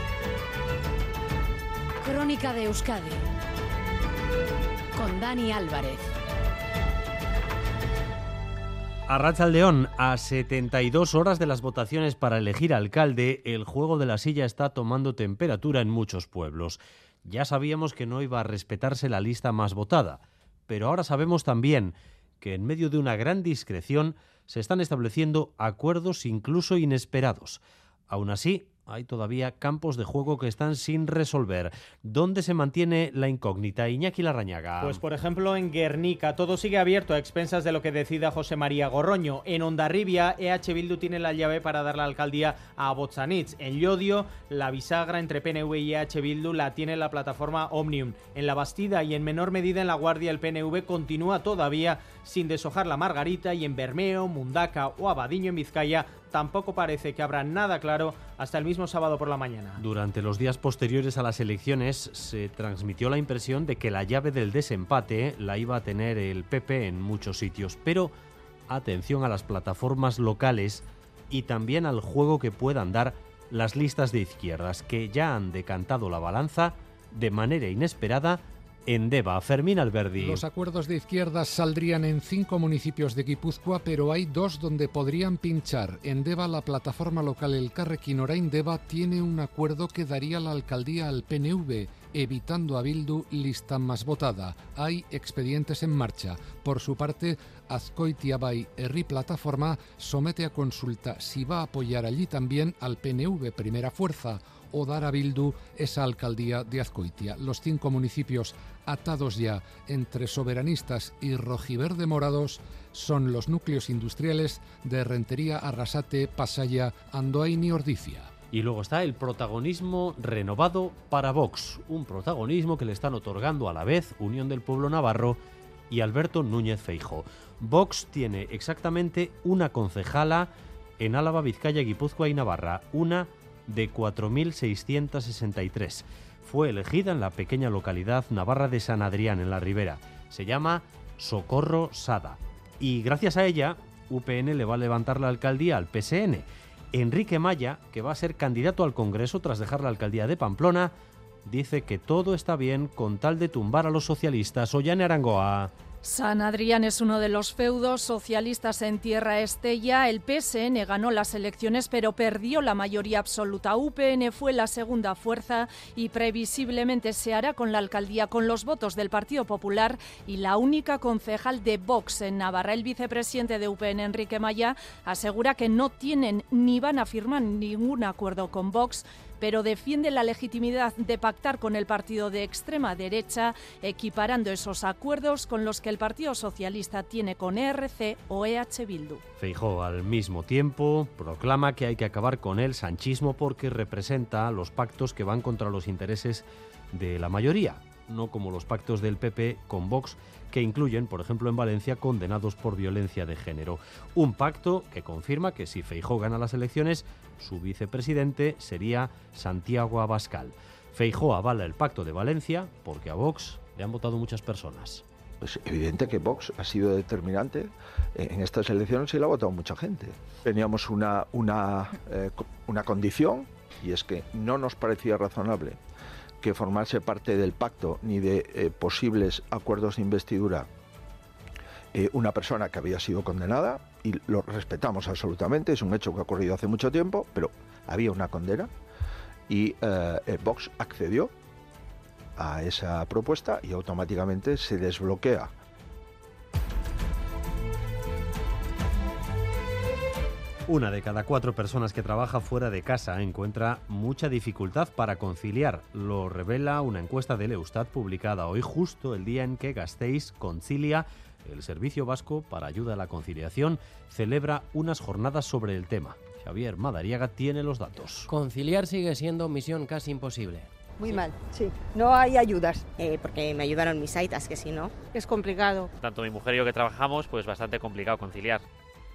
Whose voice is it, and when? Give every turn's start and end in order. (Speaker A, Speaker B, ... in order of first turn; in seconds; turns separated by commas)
Speaker A: 2.0-3.2, Speaker A: 5.0-6.1, Speaker B: 9.1-35.0, Speaker C: 34.8-59.8, Speaker B: 59.8-68.1, Speaker B: 68.7-80.4, Speaker D: 80.2-118.3, Speaker B: 118.5-125.4, Speaker B: 125.9-150.9, Speaker B: 151.4-155.7, Speaker E: 156.0-189.2, Speaker B: 189.4-215.0, Speaker F: 215.4-225.8, Speaker F: 226.4-230.7, Speaker F: 231.9-238.7, Speaker F: 239.5-241.3, Speaker F: 242.4-245.5, Speaker B: 250.7-268.3, Speaker G: 268.3-270.7, Speaker H: 271.0-272.8, Speaker I: 273.0-275.0, Speaker H: 275.2-275.9, Speaker J: 276.0-278.6